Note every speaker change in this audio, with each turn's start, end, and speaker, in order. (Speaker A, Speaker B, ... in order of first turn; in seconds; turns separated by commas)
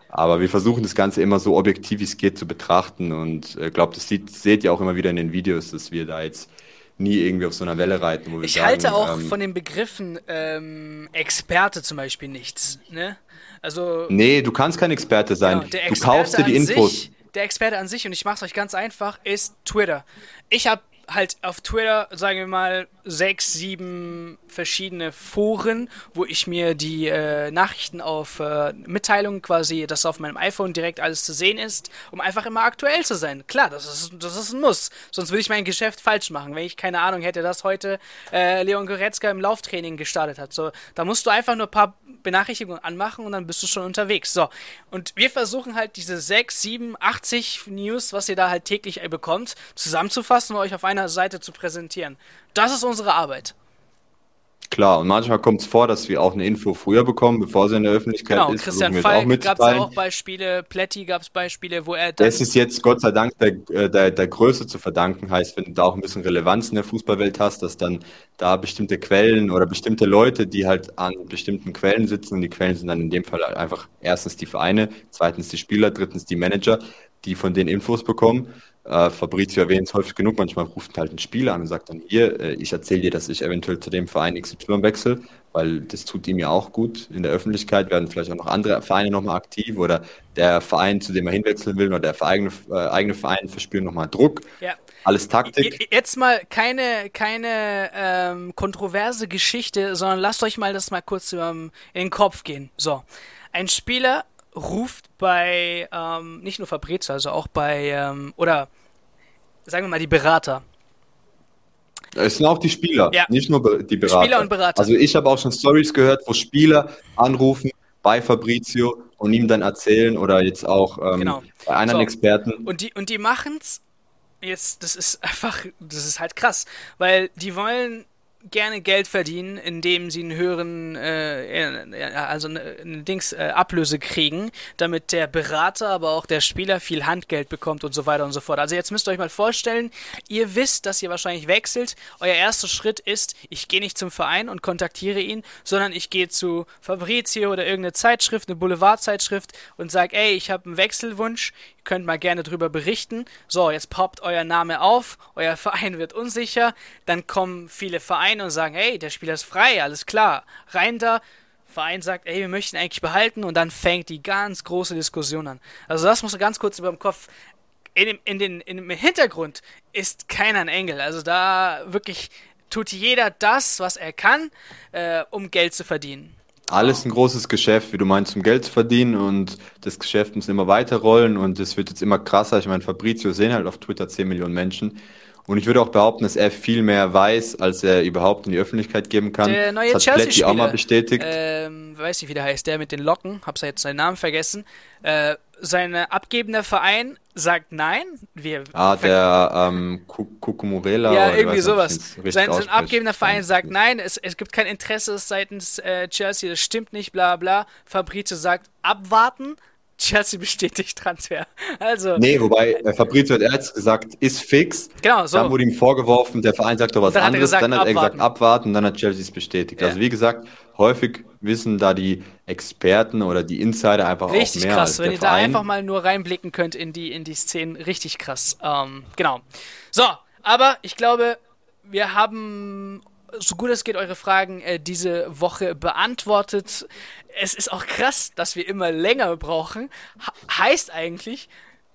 Speaker A: 0.1-9.4, Speaker B: 8.4-14.1, Speaker A: 14.1-17.0, Speaker B: 15.4-53.5, Speaker A: 54.7-59.9, Speaker B: 58.3-62.4, Speaker A: 62.2-94.5, Speaker A: 95.0-95.8, Speaker B: 95.5-108.7, Speaker B: 109.7-110.6, Speaker A: 112.2-122.7, Speaker B: 114.0-114.9, Speaker B: 121.2-122.1, Speaker B: 122.7-123.8, Speaker B: 124.4-167.3, Speaker B: 167.9-177.1, Speaker A: 176.7-191.3, Speaker B: 189.4-199.2, Speaker A: 198.7-203.7, Speaker B: 201.1-212.3, Speaker A: 212.2-225.6, Speaker B: 215.0-215.6, Speaker B: 217.0-218.3, Speaker B: 224.3-241.5